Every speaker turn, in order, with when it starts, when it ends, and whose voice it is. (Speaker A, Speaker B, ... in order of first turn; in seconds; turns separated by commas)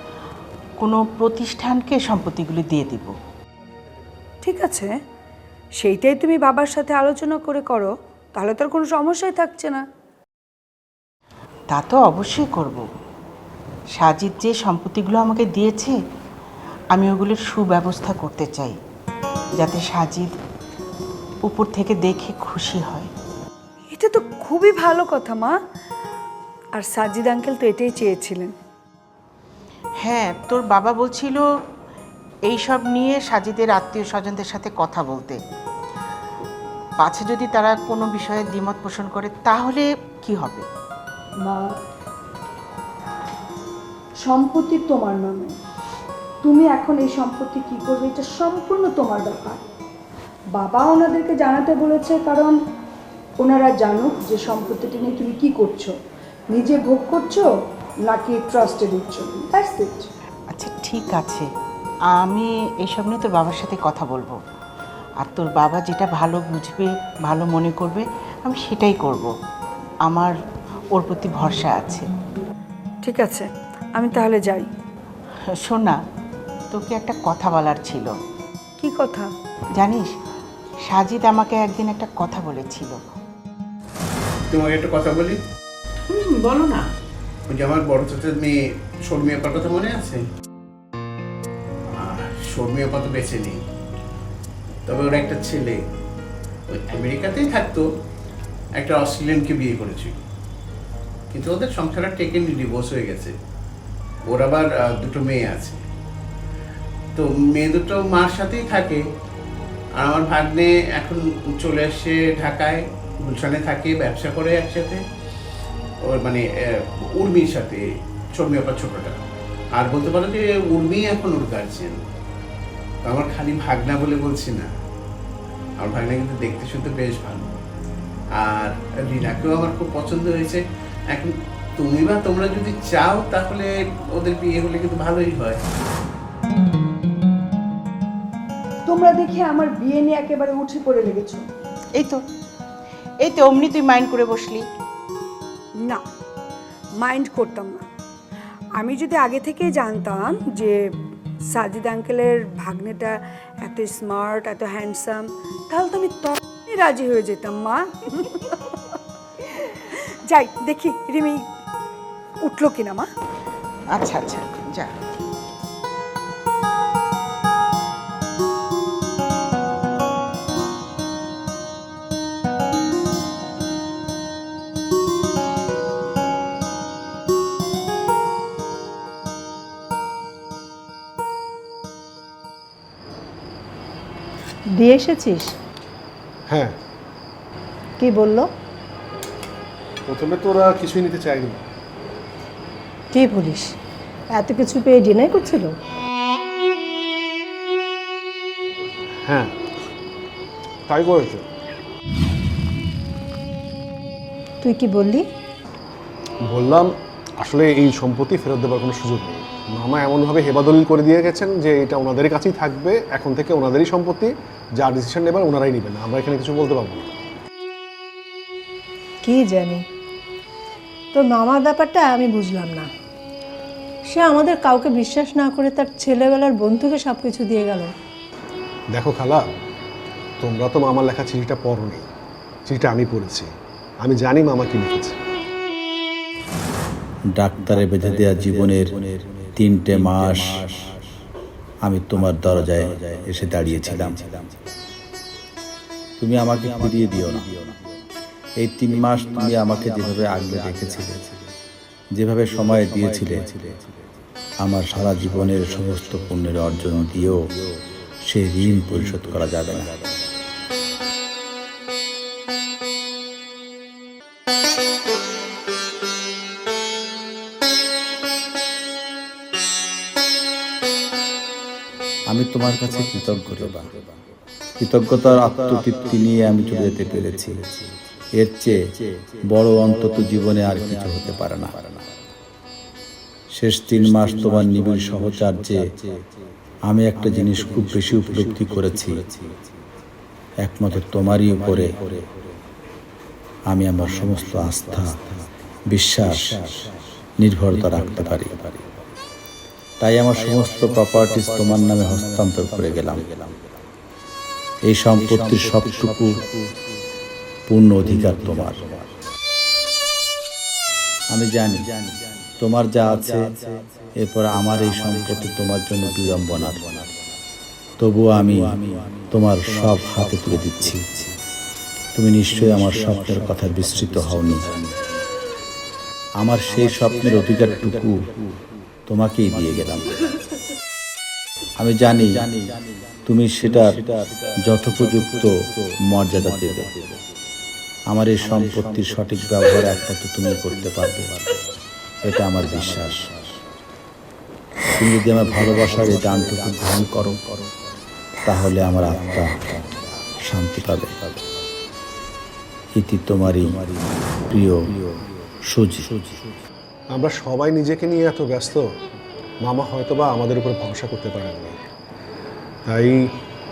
Speaker A: 0.8-3.1, Speaker B: 4.4-5.0, Speaker B: 5.8-9.8, Speaker A: 11.7-12.8, Speaker A: 14.0-15.9, Speaker A: 16.9-18.8, Speaker A: 19.6-20.3, Speaker A: 21.4-23.1, Speaker B: 23.9-25.6, Speaker B: 26.8-28.5, Speaker A: 30.0-31.4, Speaker A: 32.5-35.4, Speaker A: 37.0-40.6, Speaker B: 41.4-41.7, Speaker B: 44.2-45.5, Speaker B: 46.4-49.6, Speaker B: 50.5-52.5, Speaker B: 53.4-55.9, Speaker B: 56.5-57.5, Speaker B: 58.0-60.1, Speaker A: 60.5-61.5, Speaker A: 62.1-64.4, Speaker A: 65.2-69.3, Speaker A: 70.0-70.3, Speaker A: 70.9-72.0, Speaker B: 73.0-74.7, Speaker A: 75.5-76.0, Speaker A: 76.7-78.1, Speaker B: 78.8-79.3, Speaker A: 79.8-80.1, Speaker A: 80.9-83.0, Speaker C: 84.5-85.4, Speaker A: 86.1-86.8, Speaker C: 87.5-90.2, Speaker C: 91.9-93.6, Speaker C: 94.9-95.8, Speaker C: 96.7-97.9, Speaker C: 98.8-100.2, Speaker C: 101.3-103.3, Speaker C: 104.3-105.8, Speaker C: 107.2-109.0, Speaker C: 110.0-115.0, Speaker C: 116.0-117.8, Speaker C: 118.3-119.2, Speaker C: 119.8-122.0, Speaker C: 123.0-124.7, Speaker C: 125.8-127.5, Speaker C: 128.3-135.6, Speaker B: 138.9-141.4, Speaker A: 141.9-142.2, Speaker A: 143.2-144.6, Speaker B: 145.8-146.0, Speaker B: 147.0-147.8, Speaker B: 148.8-150.8, Speaker B: 151.5-158.6, Speaker B: 160.2-161.5, Speaker B: 162.4-163.1, Speaker A: 163.9-164.9, Speaker D: 184.8-185.5, Speaker E: 186.5-186.7, Speaker D: 188.0-188.5, Speaker E: 190.1-191.6, Speaker D: 193.1-193.7, Speaker D: 194.3-195.7, Speaker E: 199.2-199.5, Speaker E: 200.9-201.4, Speaker D: 204.6-205.2, Speaker E: 206.5-217.1, Speaker D: 219.2-219.8, Speaker D: 221.1-222.9, Speaker D: 224.1-227.9, Speaker E: 228.9-229.5, Speaker E: 230.4-232.1, Speaker E: 232.7-233.5, Speaker E: 234.0-235.2, Speaker F: 237.3-240.9, Speaker F: 241.8-244.7, Speaker F: 246.2-247.7, Speaker F: 248.6-251.3, Speaker F: 252.1-253.8, Speaker F: 254.6-257.5, Speaker F: 258.2-260.1, Speaker F: 272.3-273.9, Speaker F: 274.8-277.8, Speaker F: 278.4-278.9, Speaker F: 279.4-281.8, Speaker F: 283.5-286.0, Speaker F: 286.9-289.4, Speaker F: 290.6-292.2, Speaker F: 293.7-295.2, Speaker F: 295.9-298.8, Speaker F: 300.0-303.5, Speaker F: 304.9-306.5, Speaker F: 307.7-309.0, Speaker F: 311.3-312.1, Speaker F: 312.6-317.1, Speaker F: 318.0-321.3, Speaker F: 322.1-324.8, Speaker F: 326.4-328.3, Speaker F: 329.1-330.2, Speaker F: 331.8-332.6, Speaker F: 333.2-337.1, Speaker F: 338.1-341.5, Speaker F: 342.2-343.4, Speaker F: 344.9-347.4, Speaker F: 348.4-349.8, Speaker F: 350.4-351.2, Speaker F: 352.9-355.0, Speaker F: 355.7-356.4, Speaker E: 357.1-358.9, Speaker E: 359.6-361.8, Speaker E: 362.9-363.3